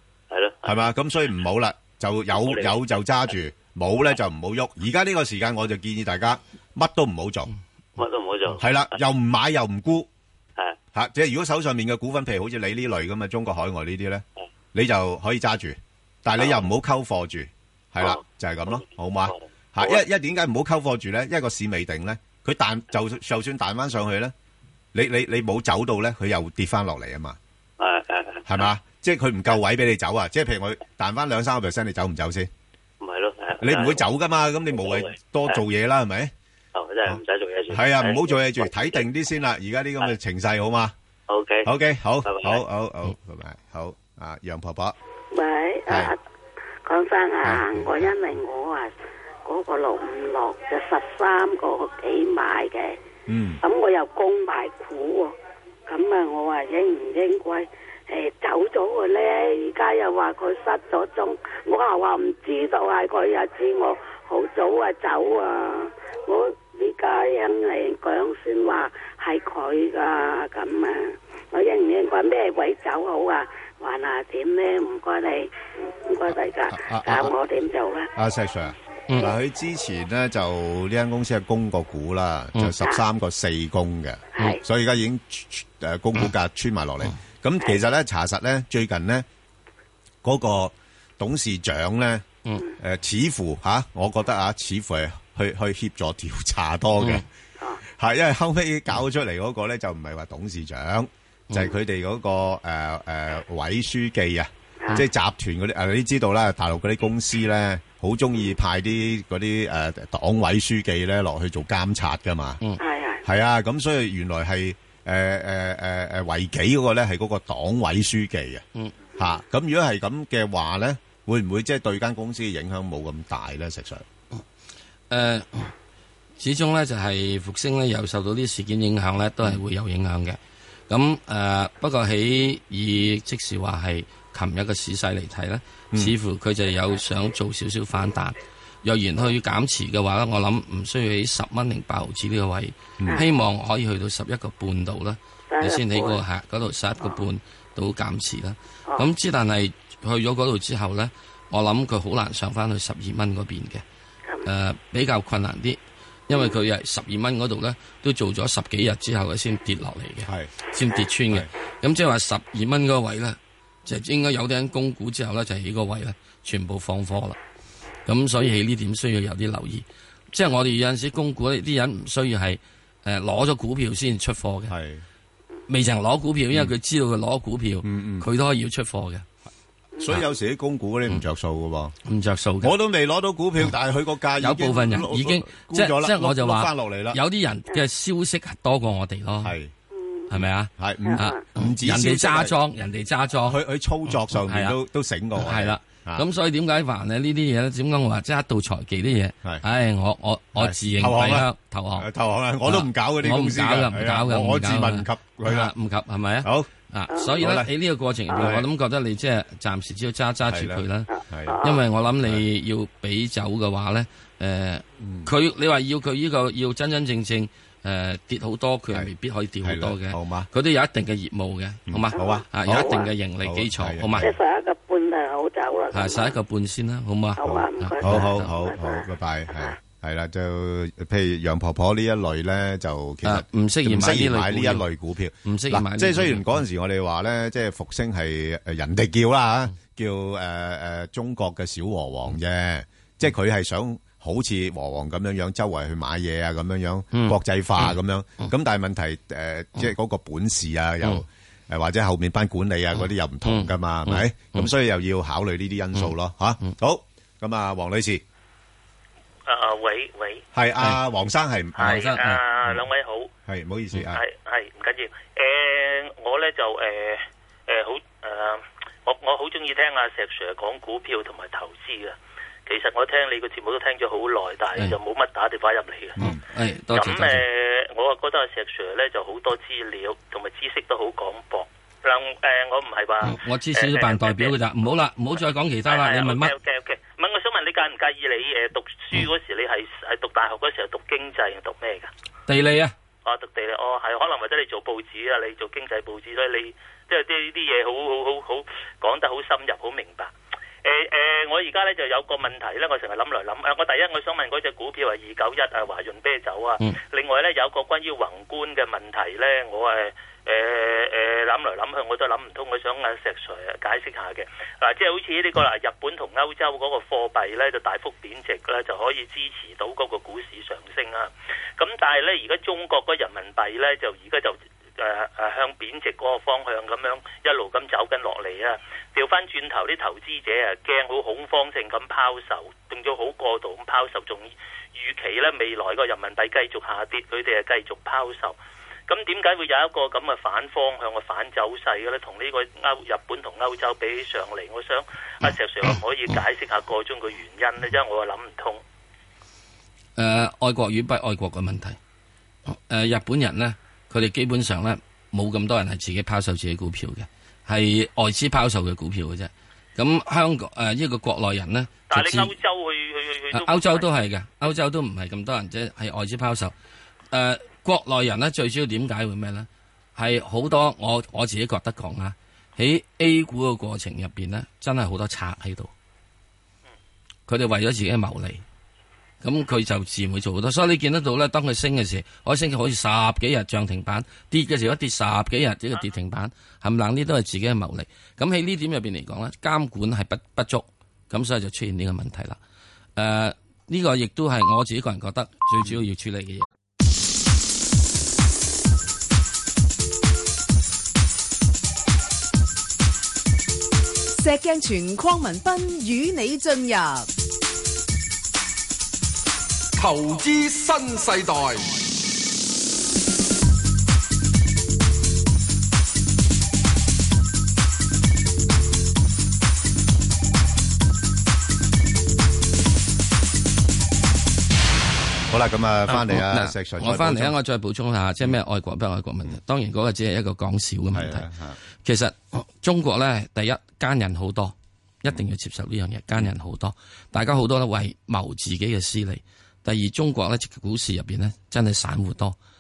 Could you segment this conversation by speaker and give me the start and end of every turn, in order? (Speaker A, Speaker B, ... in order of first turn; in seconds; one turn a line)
Speaker A: 0.3-0.7
Speaker B: 0.6-7.5
Speaker A: 2.4-2.7
Speaker A: 8.0-8.6
Speaker B: 8.6-10.1
Speaker B: 10.9-24.3
Speaker A: 19.3-20.0
Speaker B: 24.9-27.4
Speaker A: 27.8-28.6
Speaker B: 28.4-32.5
Speaker A: 33.0-34.0
Speaker B: 33.6-36.3
Speaker A: 34.8-35.6
Speaker A: 36.7-38.3
Speaker B: 37.7-40.9
Speaker A: 41.3-41.7
Speaker B: 41.6-45.0
Speaker A: 42.2-42.6
Speaker C: 45.3-46.2
Speaker C: 46.8-48.9
Speaker B: 47.4-48.1
Speaker C: 49.4-53.0
Speaker B: 53.3-53.6
Speaker C: 53.6-55.3
Speaker C: 55.9-78.1
Speaker B: 76.7-77.3
Speaker B: 78.2-89.2
Speaker D: 79.1-79.3
Speaker C: 82.8-83.0
Speaker C: 84.4-84.6
Speaker B: 90.2-92.2
Speaker B: 92.8-97.2
Speaker D: 97.0-97.2
Speaker B: 97.8-112.6
Speaker C: 112.8-113.2
Speaker B: 113.2-118.6
Speaker B: 119.2-124.0
Speaker D: 125.1-125.7
Speaker D: 126.4-130.4
Speaker D: 130.9-153.8
Speaker C: 145.5-146.2
Speaker D: 154.4-167.4
Speaker D: 168.1-174.7
Speaker B: 174.7-175.0
Speaker D: 175.7-179.2
Speaker B: 177.8-178.3
Speaker C: 180.0-180.2
Speaker B: 180.0-181.9
Speaker D: 182.0-182.7
Speaker B: 182.6-187.2
Speaker D: 184.4-189.5
Speaker B: 189.4-189.7
Speaker C: 189.9-190.3
Speaker D: 190.3-193.6
Speaker B: 190.8-192.6
Speaker C: 191.1-191.4
Speaker B: 193.5-196.2
Speaker D: 194.3-194.8
Speaker D: 195.3-202.1
Speaker B: 200.5-205.7
Speaker D: 202.6-224.3
Speaker B: 206.4-206.7
Speaker C: 207.1-207.4
Speaker B: 207.4-207.7
Speaker C: 208.3-208.6
Speaker B: 208.3-208.7
Speaker B: 210.5-211.5
Speaker C: 211.1-211.8
Speaker B: 215.0-215.3
Speaker B: 219.6-220.5
Speaker B: 221.9-224.3
Speaker C: 222.2-223.1
Speaker C: 224.2-226.4
Speaker D: 225.9-228.5
Speaker C: 227.4-229.8
Speaker B: 227.4-258.2
Speaker D: 233.2-234.8
Speaker D: 235.4-236.6
Speaker D: 247.1-248.5
Speaker D: 253.0-254.7
Speaker E: 259.4-260.4
Speaker B: 260.5-262.0
Speaker D: 261.8-262.4
Speaker E: 261.8-263.3
Speaker B: 263.4-264.2
Speaker E: 264.1-276.2
Speaker D: 276.2-277.4
Speaker E: 276.9-284.6
Speaker D: 283.2-286.5
Speaker E: 285.9-292.1
Speaker D: 292.5-292.9
Speaker E: 293.2-300.3
Speaker E: 300.8-338.6
Speaker E: 339.1-348.8
Speaker D: 350.2-352.0
Speaker D: 352.7-362.5
Speaker E: 362.1-364.1
Speaker D: 363.5-366.7
Speaker D: 367.3-375.9
Speaker D: 377.5-378.6
Speaker D: 379.4-392.6
Speaker D: 393.1-396.6
Speaker F: 404.4-407.3
Speaker G: 410.0-412.0
Speaker B: 425.5-427.6
Speaker D: 426.1-431.5
Speaker B: 431.1-431.8
Speaker D: 432.0-442.6